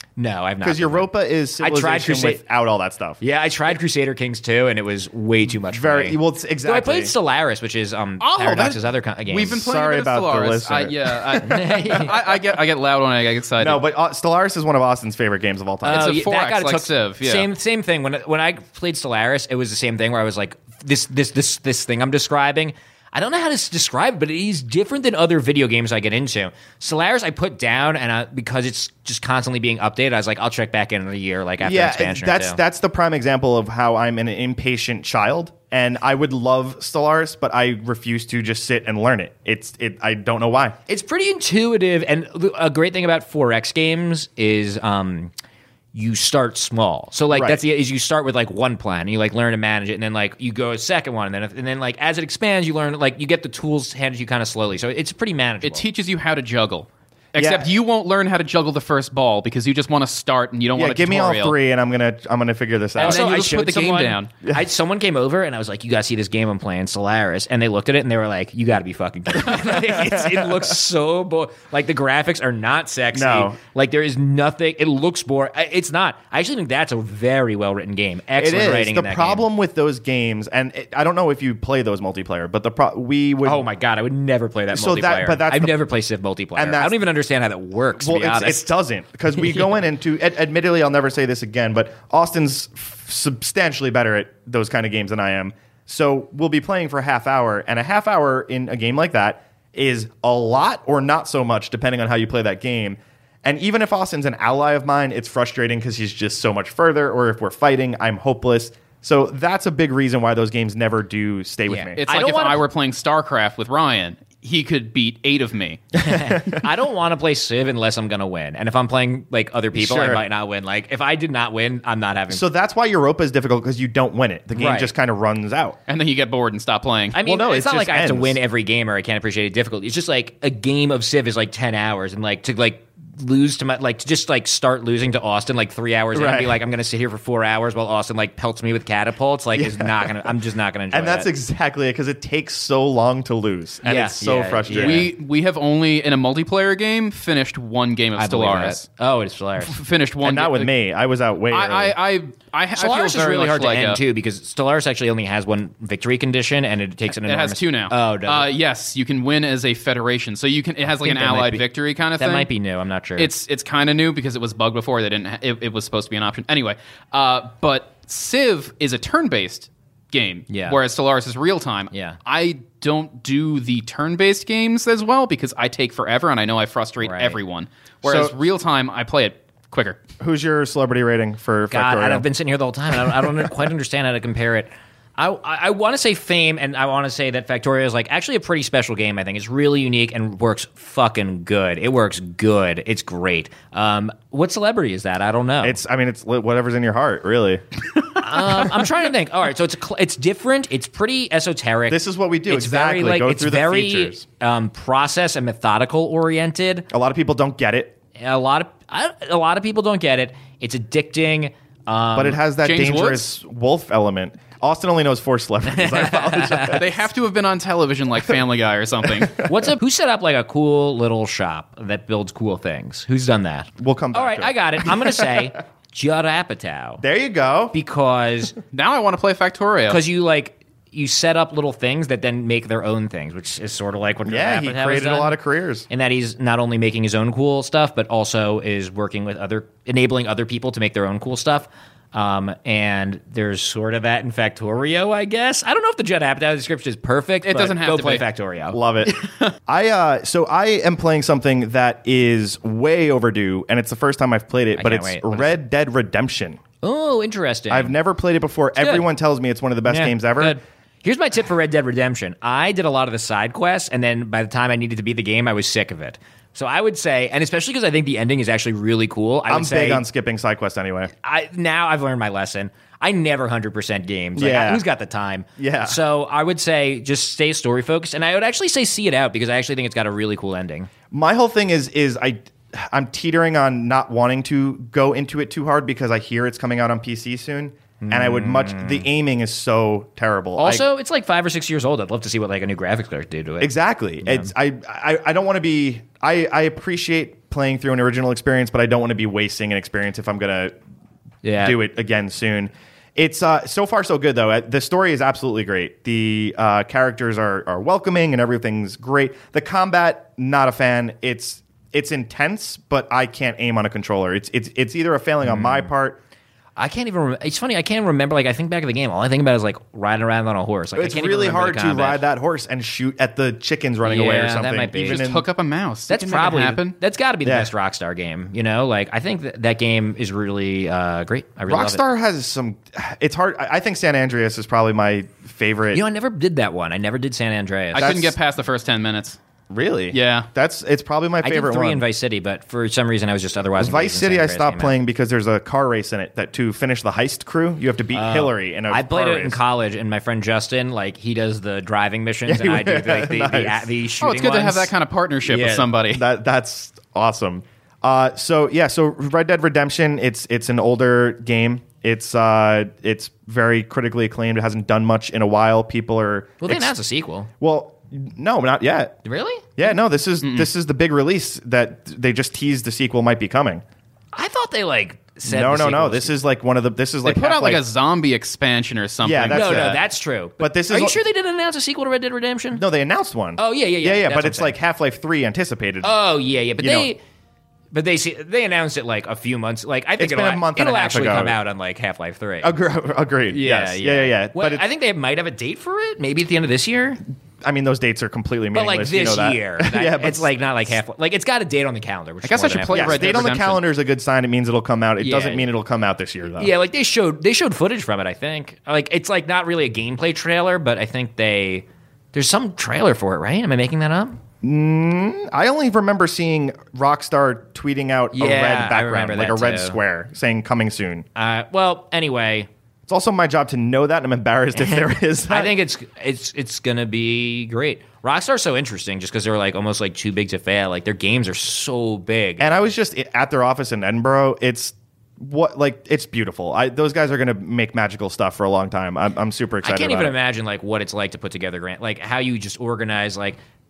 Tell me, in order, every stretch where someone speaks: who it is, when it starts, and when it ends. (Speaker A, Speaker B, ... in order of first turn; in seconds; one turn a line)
Speaker A: 0.2-2.4
Speaker B: 0.6-3.2
Speaker A: 3.2-9.6
Speaker B: 5.7-7.1
Speaker C: 8.2-13.8
Speaker B: 9.4-12.3
Speaker A: 11.4-12.1
Speaker B: 13.6-16.2
Speaker C: 15.8-17.5
Speaker A: 15.8-32.6
Speaker B: 31.6-40.8
Speaker A: 40.9-45.3
Speaker A: 45.9-55.9
Speaker B: 47.3-47.6
Speaker C: 55.6-61.6
Speaker B: 57.4-57.7
Speaker B: 60.8-63.2
Speaker A: 63.0-79.5
Speaker C: 63.0-64.3
Speaker B: 69.3-70.8
Speaker B: 73.1-73.6
Speaker B: 78.4-83.7
Speaker A: 83.4-88.7
Speaker B: 84.7-85.8
Speaker B: 86.6-87.0
Speaker B: 88.0-112.0
Speaker A: 111.7-112.6
Speaker C: 112.0-115.8
Speaker A: 116.0-122.4
Speaker B: 116.0-116.7
Speaker B: 119.7-120.2
Speaker B: 122.3-125.8
Speaker A: 124.5-124.9
Speaker C: 125.9-127.2
Speaker A: 127.1-141.3
Speaker B: 127.2-128.4
Speaker B: 136.1-136.6
Speaker B: 139.5-140.4
Speaker B: 140.9-145.1
Speaker A: 143.8-145.1
Speaker C: 144.7-148.9
Speaker A: 148.2-149.8
Speaker C: 149.6-150.7
Speaker B: 150.2-152.0
Speaker C: 151.5-154.0
Speaker A: 152.8-158.5
Speaker C: 157.1-162.5
Speaker A: 161.1-161.6
Speaker A: 162.2-163.3
Speaker C: 163.2-180.0
Speaker A: 170.5-170.8
Speaker A: 171.9-172.2
Speaker A: 177.0-177.4
Speaker B: 178.0-178.3
Speaker B: 180.2-182.3
Speaker A: 181.7-195.8
Speaker B: 195.6-197.6
Speaker A: 198.2-206.9
Speaker B: 201.9-204.2
Speaker B: 206.9-208.0
Speaker A: 208.2-212.4
Speaker B: 212.2-217.0
Speaker C: 212.6-213.3
Speaker A: 215.7-216.8
Speaker C: 216.7-219.4
Speaker B: 219.2-219.7
Speaker A: 219.4-227.0
Speaker B: 223.8-225.3
Speaker B: 227.0-227.8
Speaker A: 227.7-228.6
Speaker C: 228.7-230.0
Speaker A: 229.9-235.4
Speaker B: 234.3-235.9
Speaker A: 235.9-248.8
Speaker C: 247.4-248.3
Speaker B: 248.7-249.2
Speaker C: 249.1-249.6
Speaker B: 249.7-256.6
Speaker A: 254.8-255.6
Speaker A: 256.8-257.9
Speaker B: 257.7-260.6
Speaker A: 258.8-259.1
Speaker A: 259.9-270.0
Speaker B: 269.5-271.1
Speaker A: 271.2-280.9
Speaker B: 274.4-274.8
Speaker B: 275.6-276.0
Speaker B: 281.1-290.9
Speaker A: 288.0-289.1
Speaker A: 290.6-294.5
Speaker B: 293.6-300.7
Speaker A: 301.4-301.8
Speaker B: 301.6-316.2
Speaker A: 315.4-315.9
Speaker A: 316.8-322.2
Speaker B: 321.0-325.5
Speaker A: 324.0-325.3
Speaker C: 325.1-327.0
Speaker A: 326.1-332.0
Speaker B: 327.4-327.7
Speaker B: 331.7-336.0
Speaker A: 335.9-338.2
Speaker C: 337.9-339.4
Speaker B: 337.9-338.4
Speaker B: 339.7-342.1
Speaker C: 340.1-340.5
Speaker A: 341.4-344.9
Speaker B: 343.8-349.6
Speaker A: 348.1-354.9
Speaker B: 352.5-353.9
Speaker C: 354.2-356.2
Speaker A: 355.5-355.9
Speaker B: 356.1-366.9
Speaker A: 366.6-367.5
Speaker B: 367.6-369.2
Speaker A: 369.2-369.7
Speaker B: 369.8-373.8
Speaker C: 370.4-370.7
Speaker A: 374.3-376.3
Speaker B: 375.4-377.8
Speaker C: 377.2-380.0
Speaker B: 379.2-380.1
Speaker A: 379.5-382.8
Speaker B: 380.6-381.2
Speaker B: 382.7-386.1
Speaker A: 383.6-384.8
Speaker A: 386.0-387.2
Speaker B: 386.8-387.1
Speaker A: 387.9-392.8
Speaker B: 390.2-391.6
Speaker B: 392.6-394.9
Speaker A: 393.5-397.2
Speaker B: 397.6-400.5
Speaker A: 398.7-403.5
Speaker C: 402.4-403.8
Speaker B: 402.9-406.7
Speaker A: 405.2-405.7
Speaker A: 406.6-414.4
Speaker B: 414.6-421.2
Speaker A: 418.3-420.0
Speaker A: 421.4-422.7
Speaker B: 423.1-425.8
Speaker A: 424.8-432.8
Speaker B: 432.6-440.4
Speaker A: 439.8-443.6